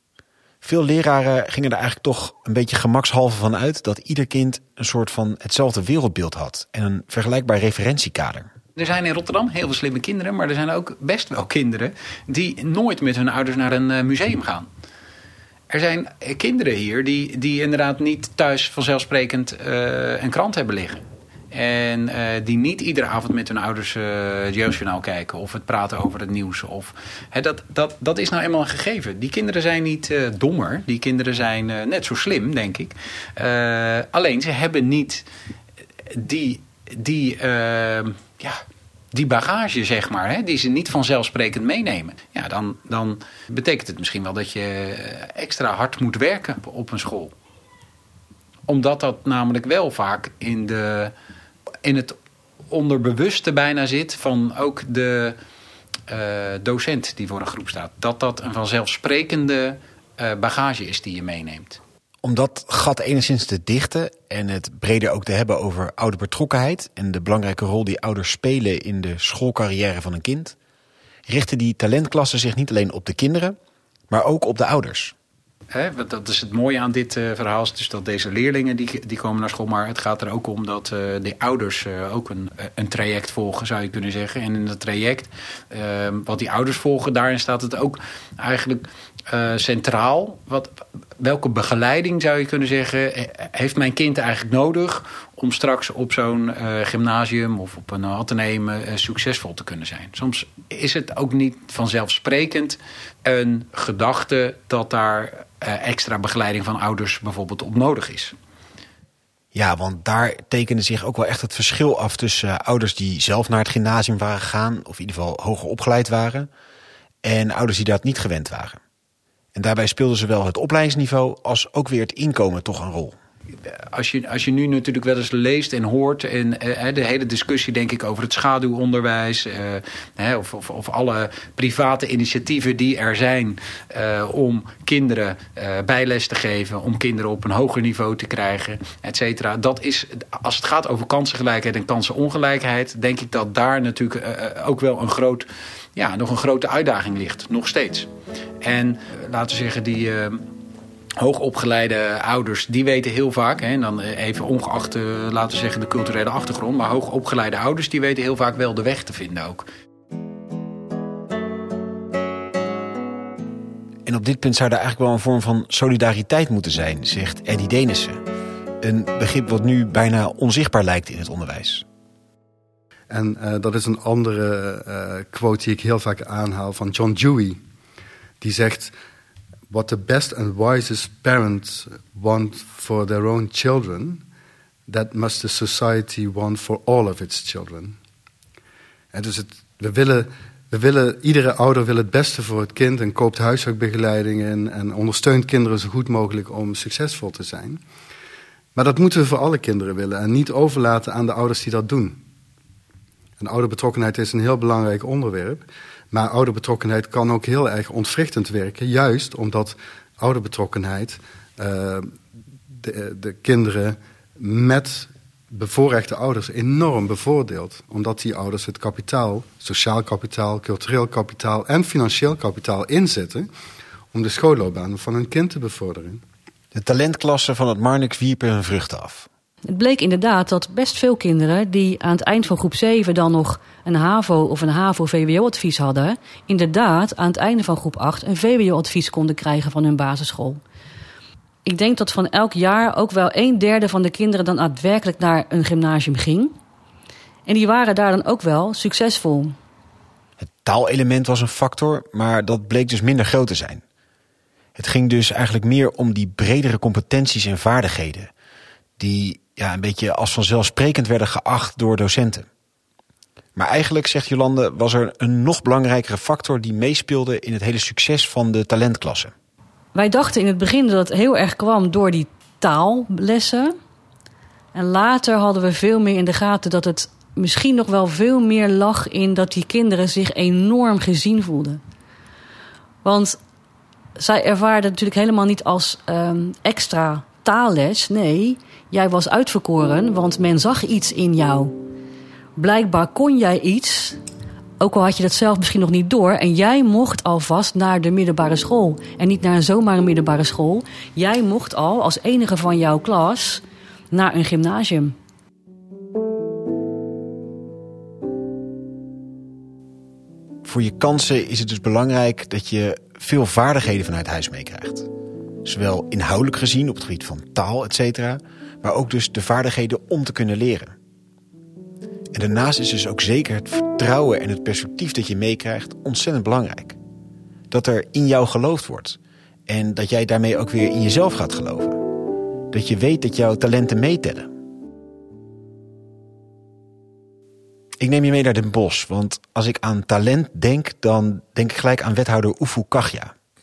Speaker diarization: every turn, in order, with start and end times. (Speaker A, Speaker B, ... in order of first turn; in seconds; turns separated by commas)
Speaker A: 0.6-8.5, Speaker B: 8.8-14.7, Speaker B: 15.7-35.2, Speaker B: 36.1-38.6, Speaker B: 39.1-47.3, Speaker B: 48.7-51.1, Speaker B: 51.8-52.2, Speaker B: 52.7-55.4, Speaker B: 56.1-61.8, Speaker A: 62.2-70.6, Speaker A: 71.3-73.6, Speaker A: 74.1-75.2, Speaker B: 75.7-108.3, Speaker A: 109.5-116.5, Speaker A: 117.2-118.8, Speaker A: 119.5-123.2, Speaker B: 123.7-148.1, Speaker B: 148.6-150.4, Speaker B: 151.2-159.7, Speaker A: 164.1-168.2, Speaker A: 168.8-171.8, Speaker C: 173.1-177.6, Speaker C: 178.4-178.9, Speaker C: 179.7-184.2, Speaker C: 184.9-188.0, Speaker C: 189.1-197.8, Speaker C: 198.8-202.2, Speaker C: 203.4-212.2, Speaker C: 212.8-223.5, Speaker C: 224.1-226.2, Speaker A: 226.7-229.3, Speaker D: 229.7-240.6, Speaker D: 241.7-246.6, Speaker D: 247.5-249.6, Speaker A: 250.4-253.8, Speaker A: 254.8-258.3, Speaker A: 259.0-262.5, Speaker A: 263.6-269.3, Speaker D: 269.9-273.7, Speaker D: 274.8-281.8, Speaker D: 283.0-283.4, Speaker D: 284.2-291.8, Speaker D: 292.6-294.2, Speaker D: 294.8-305.2, Speaker A: 310.6-315.1, Speaker A: 315.6-320.9, Speaker A: 322.3-327.0, Speaker A: 327.7-332.0, Speaker A: 332.7-334.5, Speaker A: 338.0-343.3